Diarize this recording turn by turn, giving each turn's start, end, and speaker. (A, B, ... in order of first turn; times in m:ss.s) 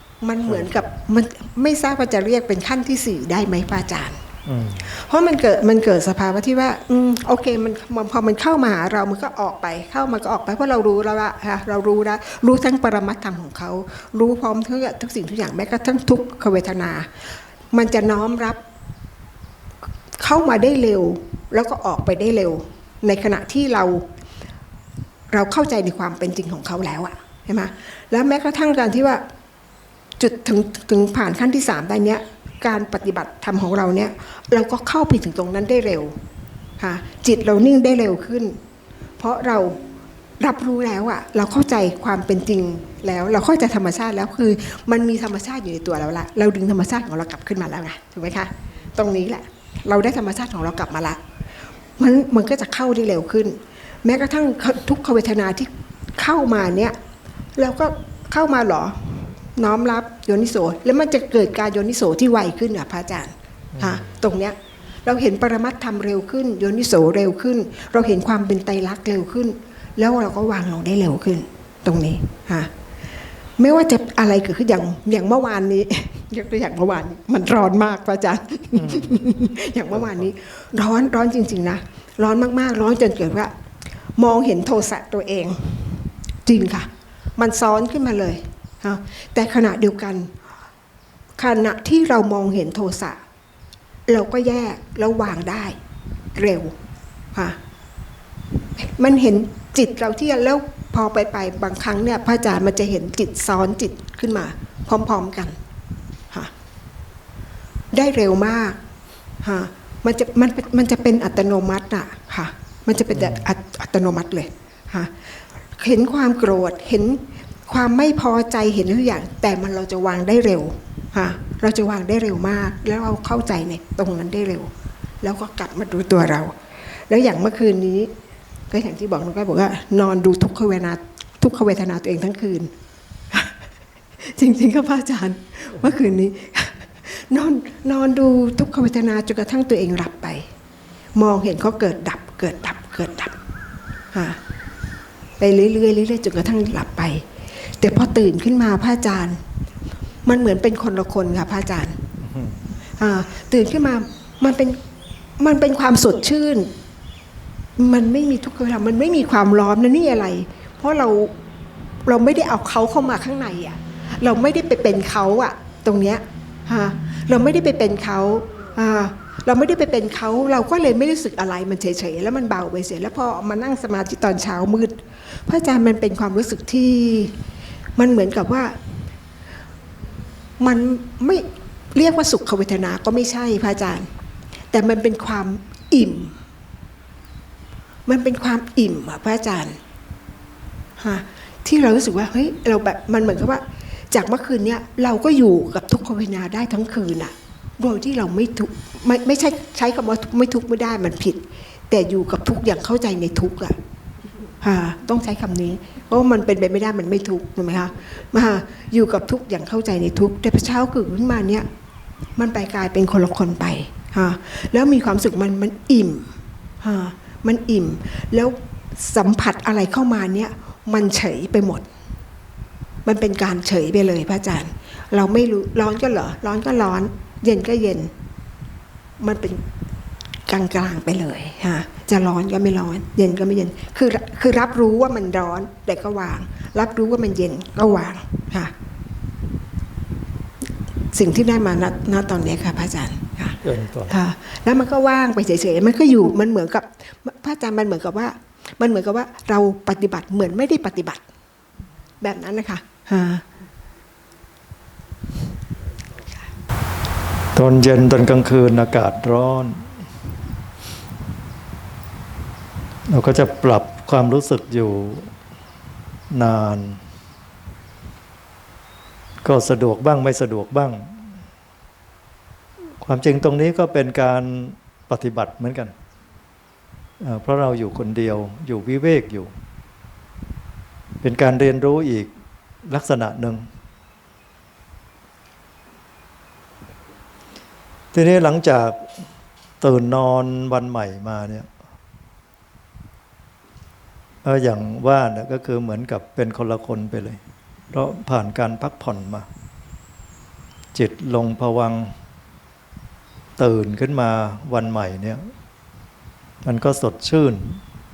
0:00.2-0:04.2 A
0:00.5-0:00.7 B
0:04.5-0:04.9 B
0:04.8-0:17.1 A
0:17.7-0:18.6 A
0:20.2-0:24.0 A
0:25.3-0:29.2 A
0:30.2-0:36.2 A
0:36.8-0:38.6 A
0:39.2-0:39.8 A
0:40.4-0:51.2 A
0:52.0-0:57.0 A
0:57.6-1:12.7 A
1:03.7-1:04.1 B
1:13.6-1:23.5 A
1:18.8-1:19.3 B
1:19.9-1:20.3 B
1:24.2-1:30.3 A
1:31.4-1:33.2 A
1:34.1-1:35.8 A
1:36.4-1:36.8 A
1:38.8-1:45.6 A
1:47.9-1:48.8 A
1:49.4-1:55.1 A
1:53.1-1:53.4 B
1:55.8-2:04.7 A
2:05.2-2:06.5 A
2:07.1-2:08.1 A
2:08.7-2:12.7 A
2:13.3-2:13.6 A
2:14.2-2:20.5 A
2:21.2-2:23.4 A
2:24.1-2:24.4 A
2:25.4-2:29.4 A
2:30.2-2:32.1 A
2:32.2-2:32.6 B
2:33.0-2:34.8 A
2:35.4-2:36.7 A
2:37.8-2:41.3 A
2:42.0-2:57.4 A
2:58.0-2:58.9 A
3:00.6-3:04.1 A
3:04.7-3:06.4 A
3:08.1-3:09.8 A
3:11.0-3:23.8 A
3:24.6-3:31.7 A
3:32.4-3:36.3 A
3:36.8-3:41.9 A
3:43.0-3:48.1 A
3:49.2-3:49.6 A
3:50.5-3:58.7 A
4:01.1-4:11.2 A
4:03.6-4:04.2 B
4:12.2-4:13.4 A
4:17.6-4:19.8 B
4:23.1-4:25.3 B
4:26.3-4:27.0 B
4:29.4-4:31.1 B
4:33.0-4:35.9 B
4:37.2-4:39.5 B
4:41.2-4:42.3 B
4:42.9-4:43.7 B
4:48.1-4:49.0 B
4:49.8-4:51.7 B
4:54.4-4:57.4 B
4:57.9-4:59.4 B
5:00.9-5:02.1 B
5:03.6-5:05.4 B
5:06.6-5:07.8 B